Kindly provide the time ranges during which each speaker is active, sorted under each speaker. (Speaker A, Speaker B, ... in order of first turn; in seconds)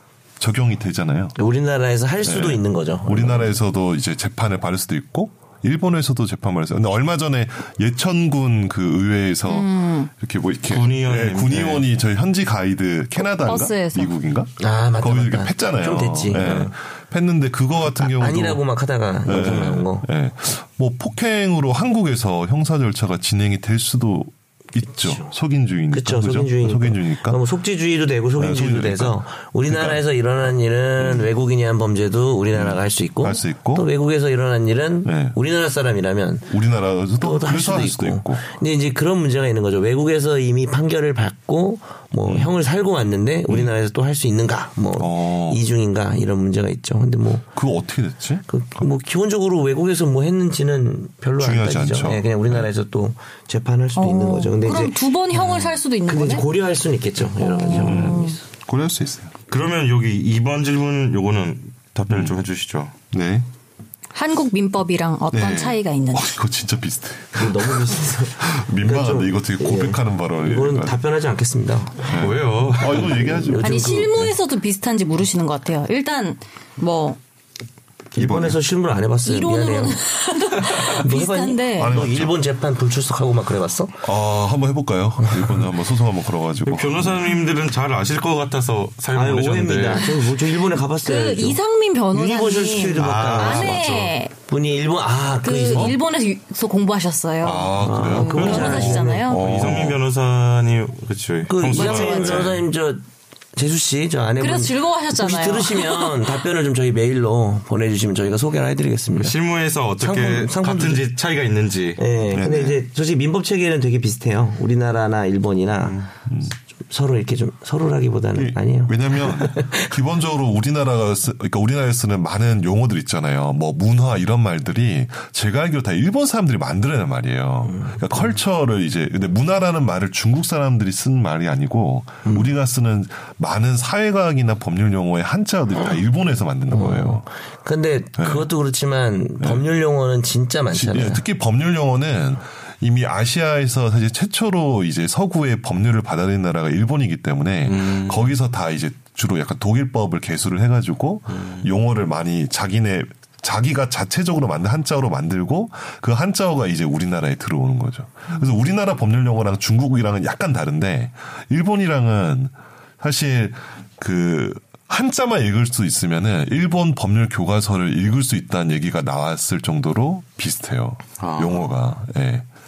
Speaker A: 0.4-1.4, 2.2-18.7, 19.2-27.4, 28.4-30.0, 31.0-31.3, 32.5-33.9, 35.0-35.4, 36.5-38.5, 42.2-42.5, 45.0-45.6, 47.5-48.5, 51.4-52.7, 57.7-59.3, 62.1-62.4, 63.1-63.5, 65.3-71.0, 72.1-73.9, 78.1-78.6, 81.8-82.4, 84.0-87.3, 97.4-100.0, 112.3-112.8, 116.3-116.5, 118.3-137.2, 138.2-138.5, 139.4-139.7, 140.7-172.5
Speaker B: 1.4-3.6, 14.6-16.7, 17.8-20.1, 24.9-25.3, 25.9-36.5, 37.2-47.5, 48.5-58.4, 67.3-72.1, 72.9-74.2, 78.1-80.0, 80.8-84.0, 85.2-85.7, 89.1-91.6, 92.1-93.8, 94.3-96.0, 97.8-99.3, 101.5-103.0, 103.5-109.3, 110.0-111.1, 112.0-116.1, 116.8-119.8, 127.7-128.3, 136.7-141.2
Speaker C: 9.5-10.1, 13.2-14.2, 53.9-56.5, 57.4-58.4, 64.1-66.3, 73.6-77.2, 79.2-82.0, 91.0-94.3, 95.4-99.4, 101.7-102.6, 104.4-106.2
Speaker D: 10.7-11.9, 59.5-62.9, 72.1-73.0, 86.6-90.3, 92.9-94.1, 98.3-102.6, 109.2-112.0, 147.7-148.3, 151.3-151.7, 171.2-171.7